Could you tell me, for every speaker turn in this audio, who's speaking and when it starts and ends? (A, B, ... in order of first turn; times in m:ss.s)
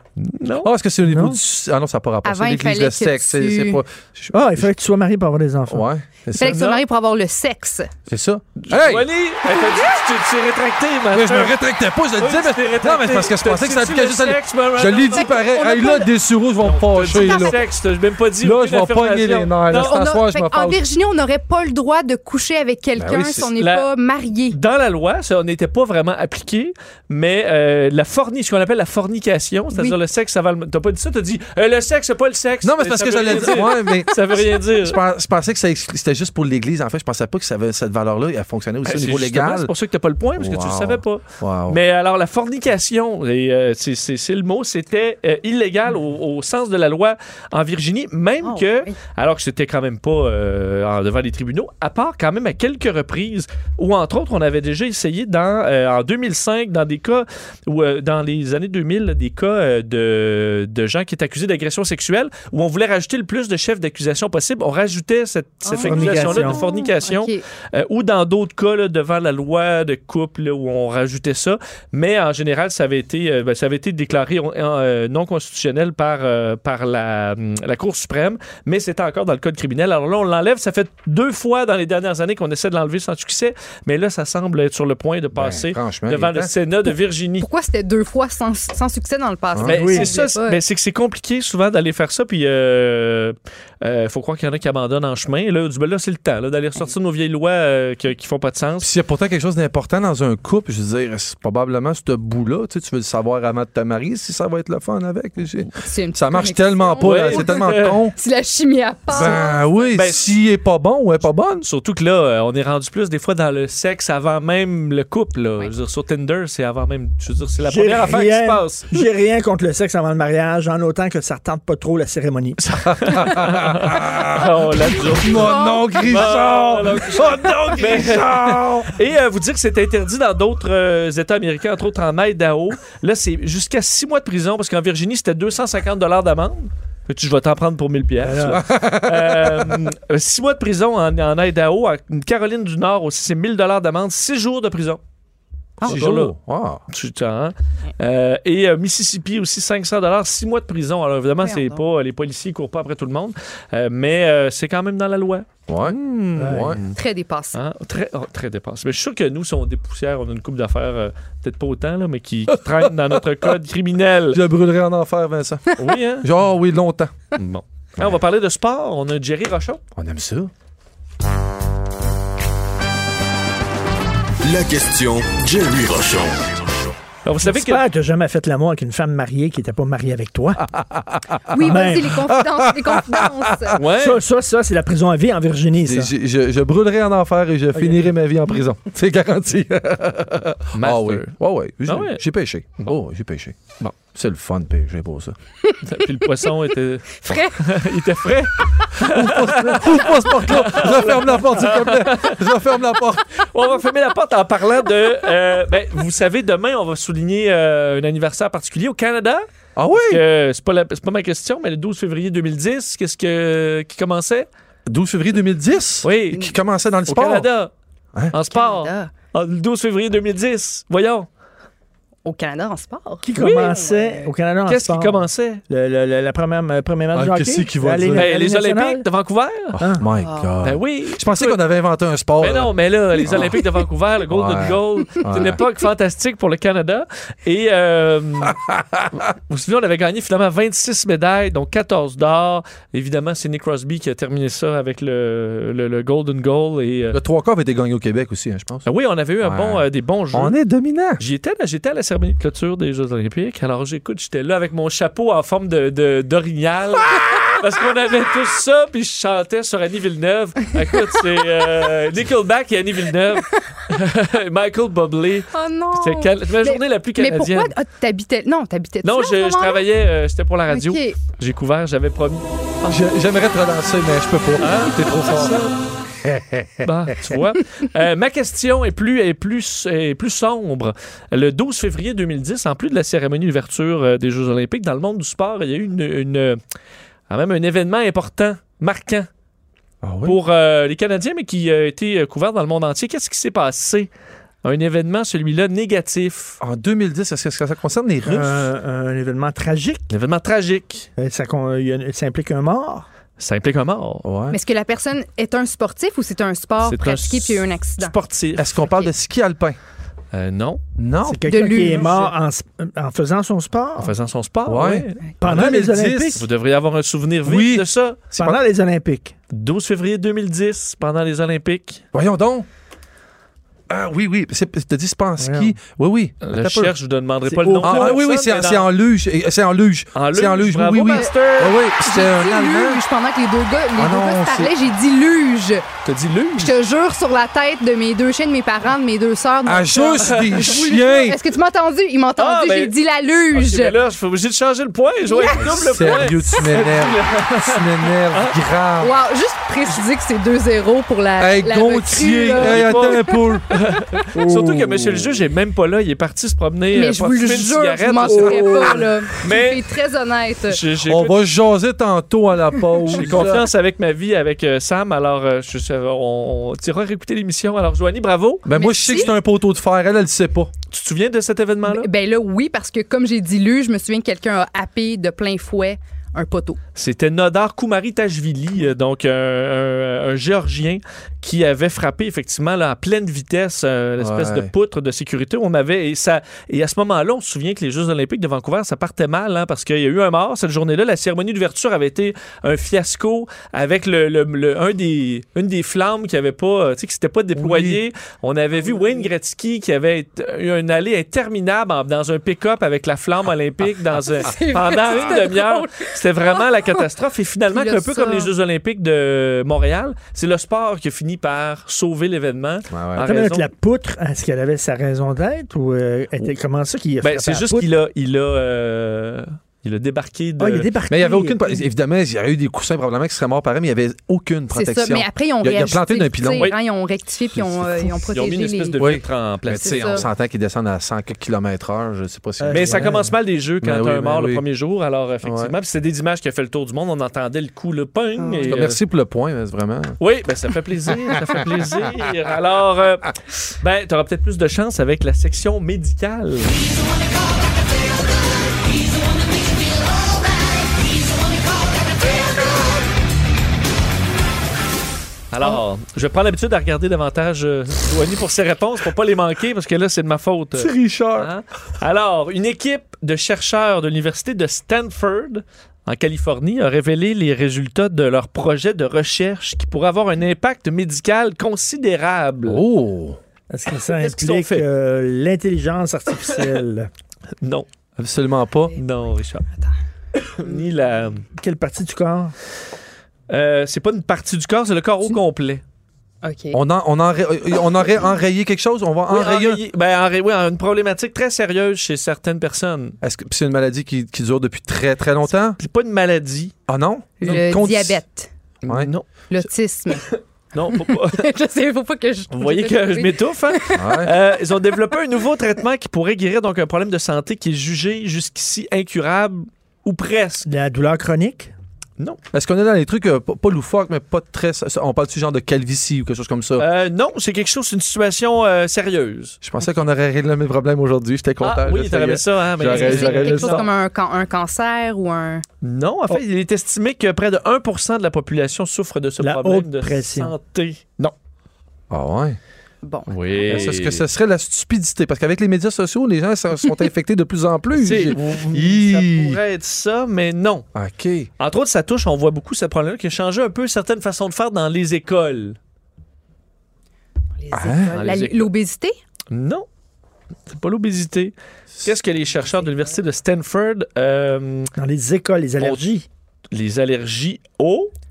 0:00.2-0:00.7 A
0:00.6-0:04.7 B
0:01.0-0:01.4 C
0:02.2-0:03.8 D
0:04.3-0:05.9 C
0:05.7-0:06.8 B
0:06.4-0:07.9 D
0:08.1-0:09.1 B
0:08.6-0:11.6 A
0:11.1-0:17.6 B
0:12.2-0:15.3 A
0:15.2-0:16.1 D
0:16.6-0:20.0 A
0:17.1-0:17.6 D
0:18.4-0:20.8 B
0:19.7-0:24.6 D
0:23.0-0:23.5 B
0:23.5-0:23.9 A
0:24.5-0:35.0 A
0:32.6-0:39.7 B
0:38.8-1:27.5 A
0:40.4-0:41.8 B
0:48.4-0:49.0 D
1:05.6-1:07.4 D
1:05.8-1:06.6 C
1:25.3-1:26.5 B
1:27.4-1:30.6 D
1:29.6-1:38.9 A
1:29.8-1:30.1 C
1:38.8-1:48.2 B
1:45.7-1:50.0 D
1:47.0-1:48.0 A
1:49.1-1:51.7 B
1:49.2-1:49.4 A
1:49.9-1:50.3 A
1:51.6-1:58.9 A
1:57.6-2:02.6 C
2:02.7-2:08.9 B
2:02.8-2:25.0 A
2:05.2-2:06.4 D
2:18.2-2:18.6 C
2:18.4-2:19.9 B
2:25.8-2:26.8 B
2:25.8-2:26.4 A
2:26.9-2:37.0 A
2:31.4-2:31.8 D
2:35.7-2:36.8 B
2:36.4-2:36.8 C
2:37.0-2:37.6 D
2:37.5-2:44.4 A
2:42.8-2:43.4 B
2:44.3-2:47.3 B
2:45.8-2:46.3 A
2:47.4-2:49.8 A
2:50.0-2:50.5 B
2:54.4-2:56.7 E
2:57.2-2:57.8 A
2:57.4-3:00.6 C
3:00.7-3:03.8 B
3:01.5-3:03.8 D
3:01.6-3:02.2 C
3:03.8-3:04.2 A
3:03.9-3:06.1 C
3:05.8-3:15.4 B
3:07.8-3:08.1 C
3:10.8-3:12.2 A
3:15.8-3:22.4 A
3:17.2-3:17.6 D
3:19.0-3:23.2 B
3:23.4-3:29.4 A
3:29.8-3:30.2 B
3:30.1-3:34.5 A
3:34.9-3:37.5 B
3:36.0-3:36.5 A
3:37.1-3:37.7 A
3:38.3-3:41.3 A
3:38.5-3:39.1 D
3:42.2-3:44.3 D
3:43.2-3:49.1 C
3:43.3-3:43.8 A
3:44.7-3:45.6 A
3:47.1-3:48.3 B
3:48.1-3:49.8 A
3:49.8-3:53.6 B
3:49.8-3:50.1 C
3:50.2-3:50.5 D
3:50.6-3:51.6 A
3:52.4-3:58.6 A
3:54.3-3:55.6 B
3:58.4-3:59.2 B
3:59.2-4:07.2 A
4:07.1-4:08.9 B
4:08.8-4:10.6 A
4:09.4-4:11.2 B
4:11.2-4:27.7 A
4:25.5-4:29.9 D
4:29.0-4:33.0 A
4:30.7-4:31.2 D
4:32.9-4:35.6 B
4:34.6-4:35.8 A
4:36.2-4:37.4 B
4:36.8-4:46.6 A
4:47.3-4:49.3 A
4:50.0-4:50.4 B
4:50.2-4:54.1 A
4:54.6-4:56.6 A
4:56.6-4:58.7 B
4:58.2-5:00.0 C
5:00.1-5:01.1 A
5:01.2-5:03.1 C
5:03.4-5:04.3 A
5:04.2-5:04.6 B
5:04.5-5:08.2 D
5:06.8-5:08.8 A
5:08.6-5:09.8 B
5:08.8-5:09.1 D
5:10.3-5:10.8 A
5:11.0-5:11.4 B
5:11.2-5:14.1 C
5:11.5-5:12.3 D
5:14.0-5:15.2 A
5:14.7-5:16.4 B
5:15.4-5:16.4 C
5:16.3-5:18.2 A
5:17.4-5:18.6 B
5:18.4-5:19.3 C
5:19.5-5:22.0 A
5:22.1-5:22.7 B
5:23.9-5:26.9 B
5:25.4-5:25.8 C
5:26.4-5:28.9 A
5:27.4-5:28.2 C
5:27.8-5:33.0 B
5:30.2-5:31.8 A
5:31.1-5:35.9 D
5:34.0-5:34.7 B
5:36.0-5:36.7 A
5:36.6-5:44.0 D
5:39.6-5:41.4 B
5:40.2-5:41.0 A
5:42.4-5:42.9 A
5:43.5-5:48.6 A
5:45.2-5:46.7 D
5:45.6-5:49.1 B
5:49.0-5:53.4 D
5:51.4-5:53.7 B
5:52.6-5:59.8 A
5:54.3-5:55.3 C
5:56.9-6:00.8 D
5:58.3-5:59.0 C
6:00.7-6:01.4 A
6:01.0-6:03.7 B
6:03.1-6:08.7 A
6:08.7-6:10.7 B
6:08.7-6:09.3 D
6:10.9-6:12.1 A
6:11.8-6:16.8 D
6:17.0-6:53.7 A
6:24.2-6:24.7 B
6:37.6-6:38.0 B
6:44.3-6:46.6 D
6:47.7-6:48.5 D
6:52.9-6:53.3 B
6:53.2-6:57.9 C
6:57.2-7:00.9 A
7:00.6-7:01.8 C
7:01.1-7:06.7 B
7:04.7-7:09.1 D
7:07.6-7:10.3 A
7:09.0-7:13.2 B
7:09.8-7:10.2 D
7:12.6-7:13.3 C
7:12.7-7:19.0 A
7:13.8-7:14.6 B
7:15.4-7:15.7 B
7:18.4-7:18.8 D
7:18.7-7:20.2 B
7:20.2-7:26.8 A
7:35.5-7:52.8 A
7:40.8-7:41.5 B
7:52.7-7:53.4 B
7:53.7-7:57.1 C
7:54.2-7:54.9 A
7:57.6-7:57.9 A
7:58.2-7:58.9 B
7:58.9-7:59.6 A
7:59.6-7:59.9 D
8:00.4-8:01.4 A
8:01.6-8:02.6 C
8:03.5-8:05.8 A
8:06.4-8:06.8 D
8:06.7-8:09.8 B
8:07.9-8:08.1 D
8:09.3-8:13.2 A
8:13.2-8:15.8 B
8:15.8-8:16.7 A
8:16.9-8:18.2 B
8:17.4-8:18.5 D
8:18.8-8:19.3 A
8:19.5-8:20.3 D
8:20.3-8:21.5 A
8:20.9-8:24.3 D
8:22.5-8:30.7 A
8:23.9-8:24.3 B
8:30.7-8:31.7 C
8:32.5-8:36.9 B
8:36.8-8:39.6 A
8:39.6-8:43.8 B
8:41.6-8:43.9 A
8:42.9-8:45.6 D
8:45.8-8:51.4 A
8:49.4-8:50.5 C
8:52.1-8:52.6 B
8:53.0-8:53.9 D
8:53.3-8:54.2 A
8:53.7-8:59.6 B
8:58.0-9:00.9 A
9:00.9-9:01.5 B
9:01.6-9:05.8 A
9:07.6-9:09.1 D
9:07.7-9:08.1 B
9:08.1-9:08.7 A
9:09.5-9:09.9 A
9:10.7-9:14.9 A
9:15.0-9:16.3 C
9:16.7-9:18.1 A